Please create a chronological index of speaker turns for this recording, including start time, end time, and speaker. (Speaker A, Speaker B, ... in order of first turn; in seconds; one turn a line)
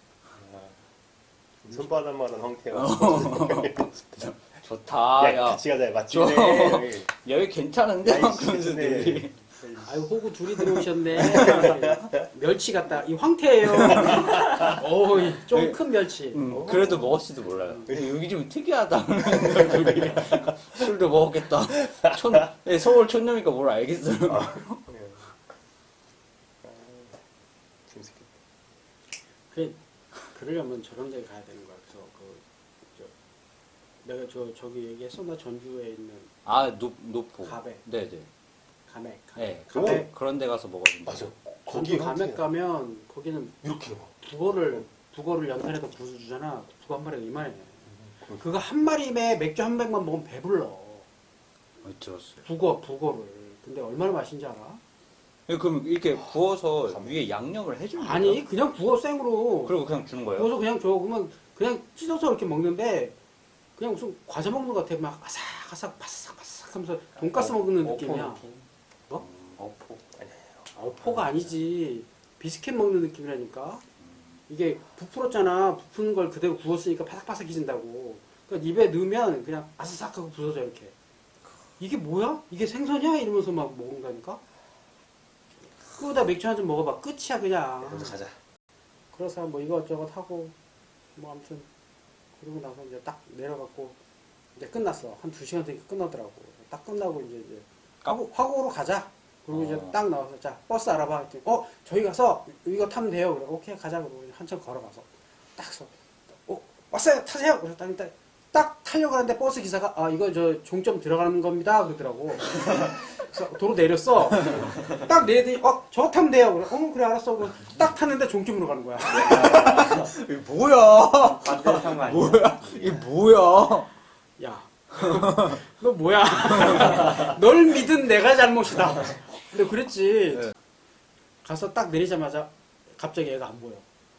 Speaker A: 0.3-0.8
Speaker A: 1.6-4.4
Speaker B: 2.7-9.4
Speaker A: 5.2-7.1
Speaker A: 8.0-9.9
Speaker C: 9.8-17.0
Speaker A: 11.1-12.2
Speaker B: 11.2-11.7
Speaker B: 13.7-14.8
Speaker A: 13.9-14.2
Speaker B: 15.4-15.8
Speaker B: 16.3-24.8
Speaker A: 16.5-17.2
Speaker C: 17.5-17.9
Speaker A: 17.9-18.2
Speaker A: 19.4-19.7
Speaker A: 24.3-25.3
Speaker A: 26.6-27.2
Speaker A: 27.9-28.4
Speaker C: 29.5-29.8
Speaker C: 30.3-33.1
Speaker C: 34.0-36.3
Speaker B: 36.4-38.3
Speaker C: 37.4-37.8
Speaker C: 38.9-40.1
Speaker B: 39.4-41.3
Speaker A: 39.8-40.1
Speaker A: 41.1-42.4
Speaker C: 41.6-51.0
Speaker A: 43.6-44.1
Speaker B: 51.8-52.4
Speaker C: 52.4-54.8
Speaker B: 55.5-58.4
Speaker A: 56.8-57.2
Speaker C: 58.0-59.8
Speaker B: 59.6-60.5
Speaker C: 60.3-63.1
Speaker C: 63.8-68.5
Speaker B: 67.5-68.4
Speaker B: 69.2-70.0
Speaker A: 70.1-70.7
Speaker C: 70.8-73.8
Speaker C: 74.5-80.9
Speaker C: 81.8-84.4
Speaker C: 85.8-88.2
Speaker A: 87.8-88.4
Speaker C: 89.1-90.5
Speaker C: 91.2-91.7
Speaker C: 92.4-94.0
Speaker C: 94.6-120.0
Speaker B: 99.5-99.9
Speaker B: 119.2-123.9
Speaker C: 122.7-123.0
Speaker C: 124.4-130.5
Speaker B: 126.7-127.0
Speaker C: 131.4-133.8